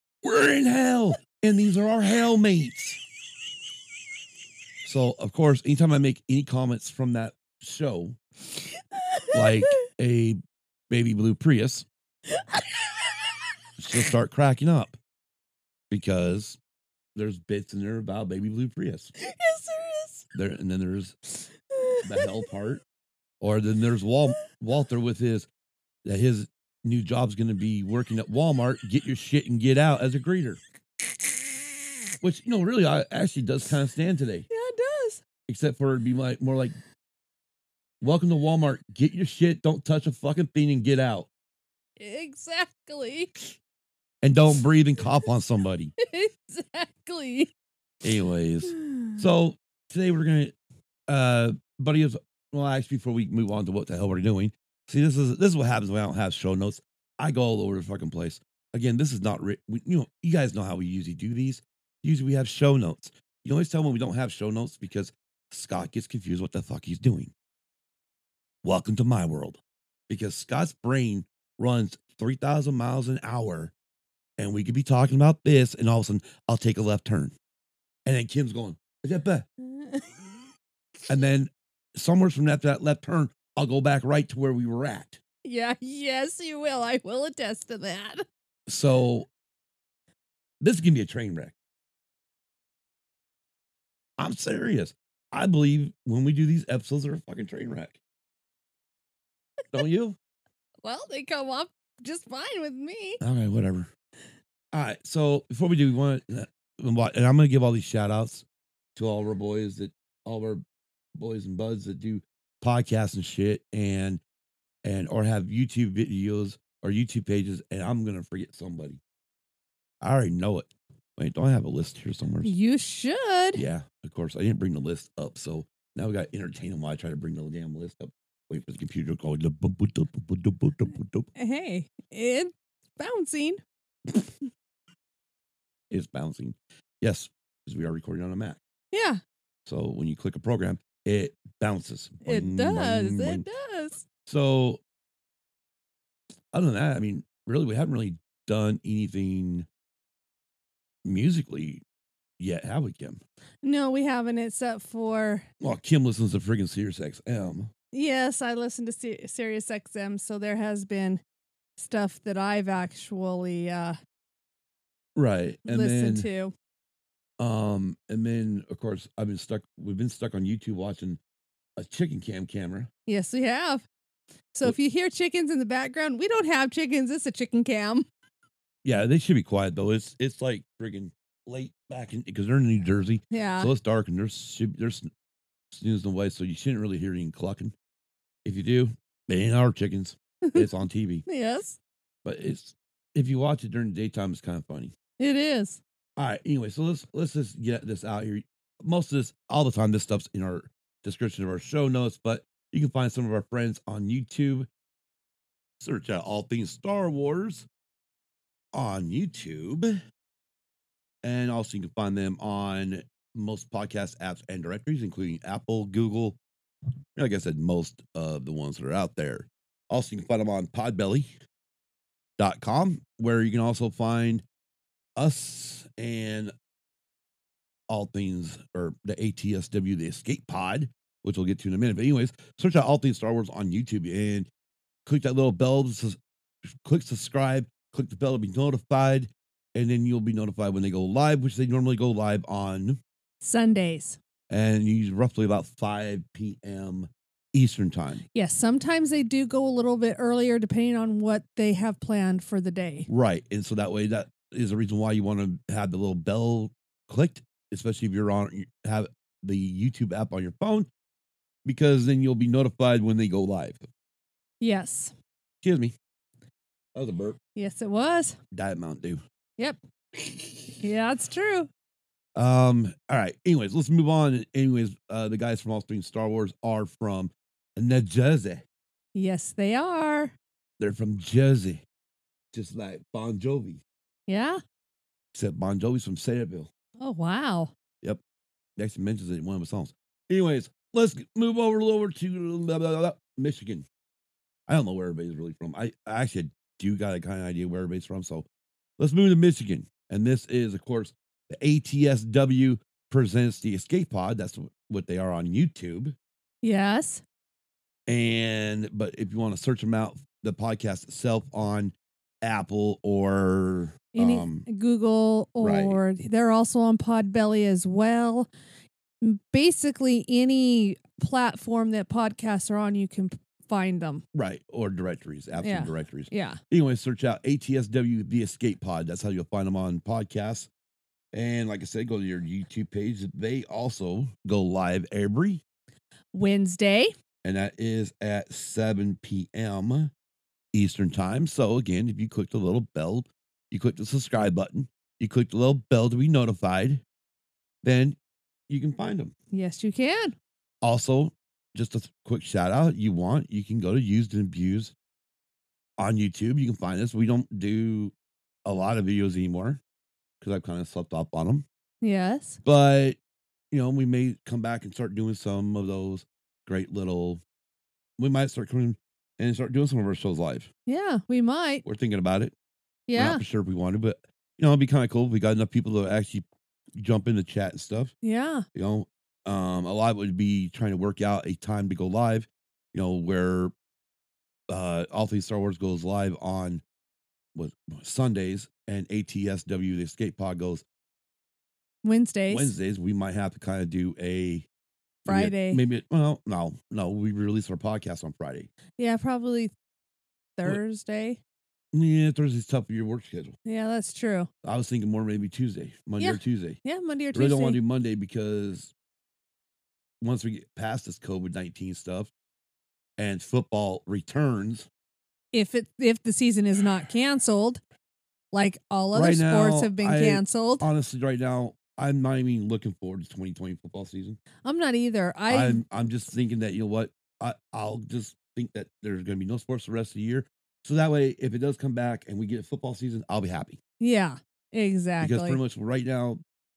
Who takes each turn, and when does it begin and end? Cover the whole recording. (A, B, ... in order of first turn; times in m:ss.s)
0:00.2-0:03.0 A
0:04.8-0:08.2 A
0:08.7-0:09.7 B
0:09.3-0:10.4 A
0:10.9-0:11.9 A
0:12.3-0:13.4 B
0:13.8-0:15.0 A
0:15.9-0:16.6 A
0:17.1-0:19.1 A
0:19.2-0:20.2 B
0:20.3-0:21.2 A
0:21.6-0:22.5 B
0:22.0-0:22.8 A
0:23.4-0:25.5 A
0:26.0-0:30.6 A
0:32.2-0:34.5 A
0:34.5-0:35.2 B
0:35.5-0:36.8 A
0:38.0-0:41.3 A
0:42.0-0:43.5 B
0:44.2-0:45.9 A
0:46.0-0:47.5 B
0:48.0-0:50.5 A
0:48.8-0:49.1 B
0:51.1-1:07.3 A
1:08.6-1:13.7 A
1:14.4-1:17.3 A
1:18.0-1:19.5 A
1:19.6-1:20.1 B
1:21.1-1:25.2 A
1:25.4-1:28.2 B
1:28.7-1:29.3 A
1:30.6-1:31.6 A
1:34.2-1:38.0 A
1:39.7-1:40.2 A
1:40.8-1:43.2 B
1:43.2-1:43.9 A
1:44.7-1:48.4 A
1:49.0-1:50.6 A
1:51.2-1:54.2 A
1:54.8-1:59.0 A
2:00.0-2:02.5 A
2:02.4-2:03.6 B
2:03.5-2:11.3 A
2:11.4-2:13.6 B
2:15.9-2:18.6 A
2:18.9-2:19.2 B
2:19.6-2:23.4 A
2:22.2-2:24.0 B
2:24.2-2:24.8 A
2:26.5-2:29.6 A
2:31.0-2:31.8 A
2:32.4-2:33.2 A
2:33.6-2:35.5 B
2:35.6-2:37.7 A
2:37.9-2:41.2 B
2:41.8-2:44.0 B
2:45.2-2:46.3 A
2:45.6-2:46.5 B
2:47.4-2:51.2 A
2:51.8-2:52.9 A
2:53.1-2:53.8 B
2:54.5-2:58.0 B
2:58.8-3:05.1 A
3:03.3-3:03.7 B
3:05.7-3:07.7 A
3:08.4-3:11.2 A
3:11.3-3:11.8 B
3:12.2-3:14.9 A
3:15.2-3:15.8 B
3:16.2-3:24.7 A
3:25.8-3:27.7 A
3:28.7-3:30.0 A
3:31.2-3:36.4 A
3:37.1-3:41.3 A
3:42.4-3:44.4 A
3:45.2-3:46.5 A
3:47.9-3:54.5 A
3:55.0-3:56.2 A
3:56.8-4:03.0 A
4:03.4-4:04.2 B
4:04.5-4:08.2 A
4:08.3-4:13.1 B
4:13.1-4:20.9 A
4:21.6-4:23.8 A
4:24.6-4:25.1 B
4:25.6-4:26.0 A
4:27.0-4:27.4 A
4:27.6-4:28.4 B
4:28.5-4:29.2 A
4:30.2-4:30.6 A
4:30.8-4:31.7 B
4:32.4-4:38.6 A
4:39.1-4:40.3 B
4:40.8-4:41.8 A
4:42.5-4:43.8 A
4:44.3-4:44.6 B
4:45.3-4:46.7 A
4:47.0-4:47.7 B
4:48.8-4:53.8 A
4:54.7-4:58.4 A
4:59.0-5:06.2 A
5:06.6-5:07.2 B
5:08.1-5:14.6 A
5:14.1-5:18.5 B
5:15.6-5:16.0 A
5:19.2-5:24.2 B
5:24.3-5:30.7 A
5:25.6-5:26.6 B
5:31.3-5:35.6 A
5:36.3-5:37.1 B
5:37.4-5:40.1 A
5:40.7-5:47.0 A
5:47.8-5:48.2 A
5:48.7-5:49.3 A
5:49.5-5:50.4 B
5:50.8-5:54.9 A
5:56.0-5:58.1 A
5:58.6-5:59.8 A
6:00.4-6:01.6 A
6:02.0-6:02.6 B
6:02.6-6:03.2 A
6:03.7-6:07.4 A
6:08.2-6:10.7 A
6:10.9-6:11.8 B
6:11.8-6:12.5 A
6:13.1-6:13.4 B
6:13.2-6:16.4 A
6:17.0-6:18.1 A
6:18.2-6:18.6 B
6:18.7-6:23.7 A
6:24.7-6:26.8 A
6:27.5-6:30.8 A
6:32.0-6:32.7 B
6:32.5-6:34.7 A
6:35.2-6:38.7 A
6:35.3-6:35.8 B
6:39.0-6:39.7 B
6:40.6-6:41.4 B
6:41.9-6:43.6 A
6:43.6-6:44.5 B
6:44.6-6:46.8 A
6:46.2-6:47.8 B
6:47.3-6:48.9 A
6:50.2-6:52.3 A
6:53.2-6:54.9 A
6:55.5-6:57.8 B
6:58.5-7:00.8 B
6:59.1-7:04.4 A
7:04.6-7:05.8 B
7:05.5-7:13.8 A
7:14.0-7:15.6 B
7:15.2-7:16.4 A